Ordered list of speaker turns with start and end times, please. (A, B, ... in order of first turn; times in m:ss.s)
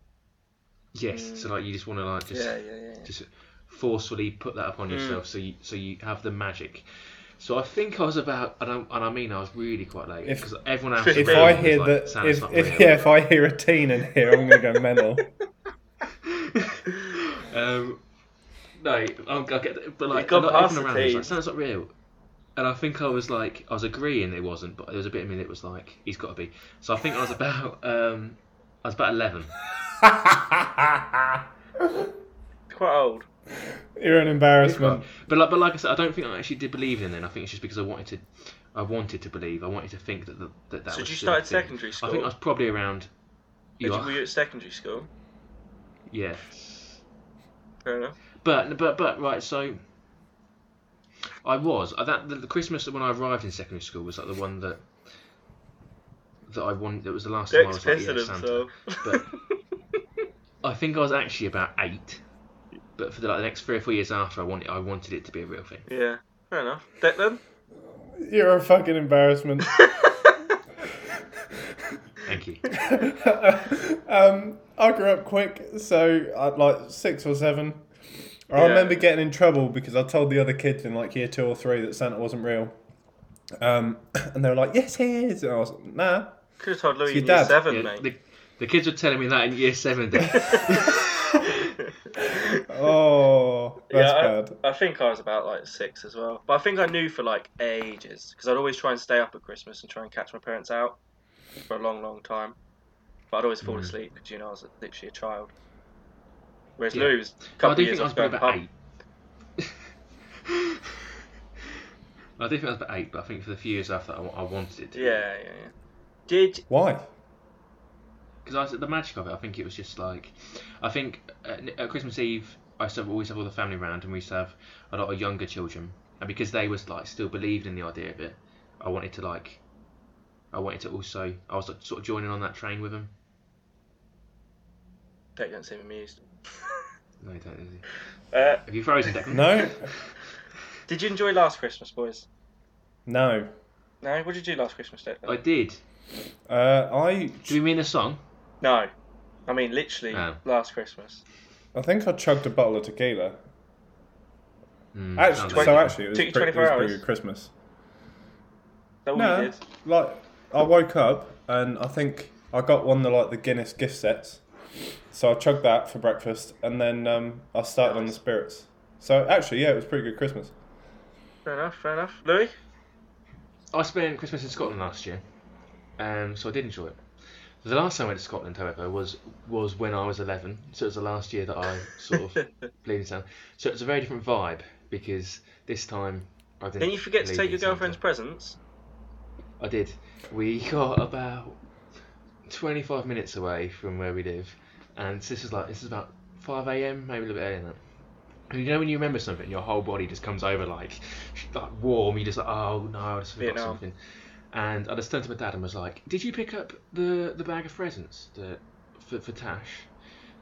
0:00.9-0:13.0 A
0:01.1-0:01.5 B
0:02.3-0:03.1 B
0:04.9-0:05.2 B
0:10.2-0:15.3 C
0:11.0-0:11.6 B
0:17.4-0:18.1 A
0:18.6-0:21.9 A
0:20.1-0:21.3 B
0:22.6-0:29.6 A
0:30.0-0:30.6 C
0:32.7-0:33.3 B
0:33.9-0:35.1 C
0:34.6-0:43.2 A
0:40.9-0:42.3 B
0:43.8-0:44.2 A
0:43.8-0:45.1 B
0:46.1-0:47.0 A
0:47.8-0:48.2 B
0:48.4-0:49.9 A
0:51.4-0:55.2 A
0:56.5-0:59.4 A
0:57.5-0:59.2 B
1:00.6-1:02.2 A
1:03.0-1:05.9 A
1:05.9-1:07.4 B
1:08.2-1:09.8 C
1:12.2-1:12.7 A
1:12.8-1:17.9 C
1:18.5-1:22.8 C
1:18.6-1:19.1 B
1:23.6-1:27.6 C
1:26.6-1:28.1 B
1:27.5-1:31.5 A
1:30.4-1:30.6 B
1:32.7-1:34.6 C
1:33.9-1:41.0 B
1:41.7-1:42.6 B
1:43.3-1:45.5 B
1:43.6-1:44.0 A
1:46.8-1:48.6 B
1:46.9-1:48.7 A
1:52.4-1:55.2 A
1:54.9-1:55.7 B
1:56.3-1:56.6 B
1:56.7-1:57.1 C
1:58.4-2:09.6 A
2:10.5-2:13.1 A
2:15.4-2:16.7 B
2:17.2-2:18.1 A
2:18.3-2:18.6 B
2:18.6-2:20.1 A
2:19.3-2:19.9 C
2:20.9-2:22.3 B
2:23.1-2:23.5 C
2:24.0-2:25.4 B
2:25.3-2:25.8 A
2:26.5-2:27.6 C
2:27.5-2:28.2 A
2:28.6-2:28.9 B
2:29.5-2:31.2 B
2:30.1-2:30.4 A
2:31.7-2:33.4 C
2:34.9-2:36.0 A
2:35.2-2:37.5 C
2:35.4-2:37.0 B
2:39.0-2:39.6 B
2:39.1-2:44.4 C
2:45.1-2:50.5 C
2:47.8-2:48.2 B
2:51.4-2:52.6 B
2:53.7-2:55.2 A
2:56.0-3:08.0 A
3:06.8-3:08.6 B
3:09.6-3:12.0 A
3:12.5-3:17.8 A
3:18.4-3:30.0 A
3:23.4-3:23.8 B